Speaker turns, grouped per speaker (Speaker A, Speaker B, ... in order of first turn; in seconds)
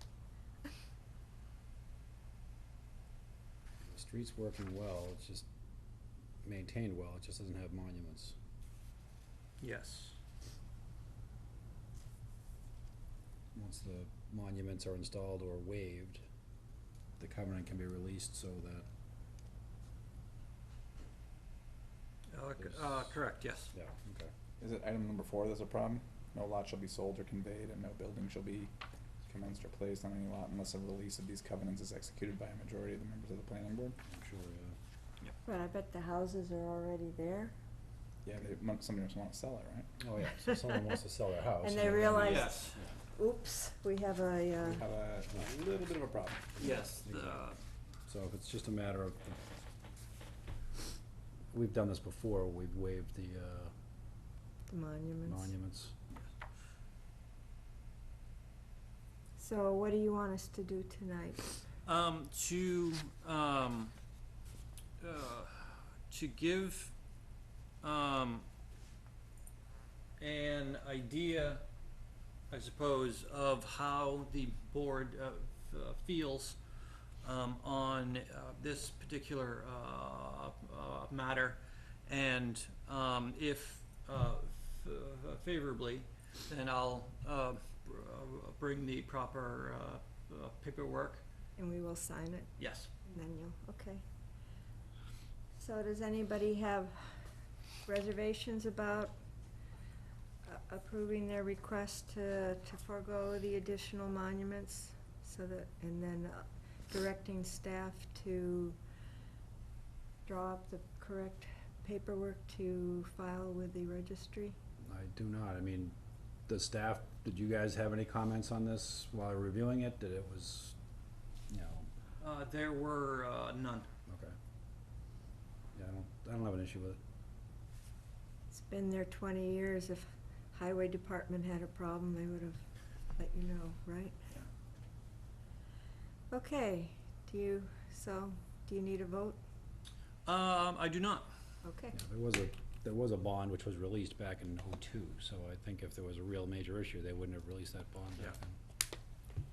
Speaker A: 3.8-5.5, 6.4-8.4, 13.5-16.2, 17.2-18.9, 22.6-23.2, 23.7-24.3, 34.1-34.8, 40.0-43.0, 46.6-47.5, 48.1-49.4, 51.5-53.7, 55.3-56.0, 114.8-116.0, 116.5-120.8, 121.5-121.9, 124.1-124.4, 125.8-127.0, 141.9-148.6
Speaker B: 9.6-10.2, 22.3-23.7, 42.0-42.8, 46.6-47.6, 61.9-63.9, 65.0-66.9, 67.8-68.5, 70.2-71.6, 72.5-76.6, 77.2-91.2, 92.6-92.9, 122.2-123.9, 140.3-141.3
Speaker C: 24.6-28.7, 29.2-34.0, 38.2-39.9, 44.6-46.6
Speaker D: 35.5-37.5, 40.5-41.0, 41.6-44.8, 54.7-55.5, 59.4-61.5, 91.6-92.5, 93.0-94.0, 95.6-97.2, 97.8-99.2, 100.5-108.8, 110.3-114.6, 128.5-132.6, 133.2-134.2, 136.3-139.4, 141.6-142.0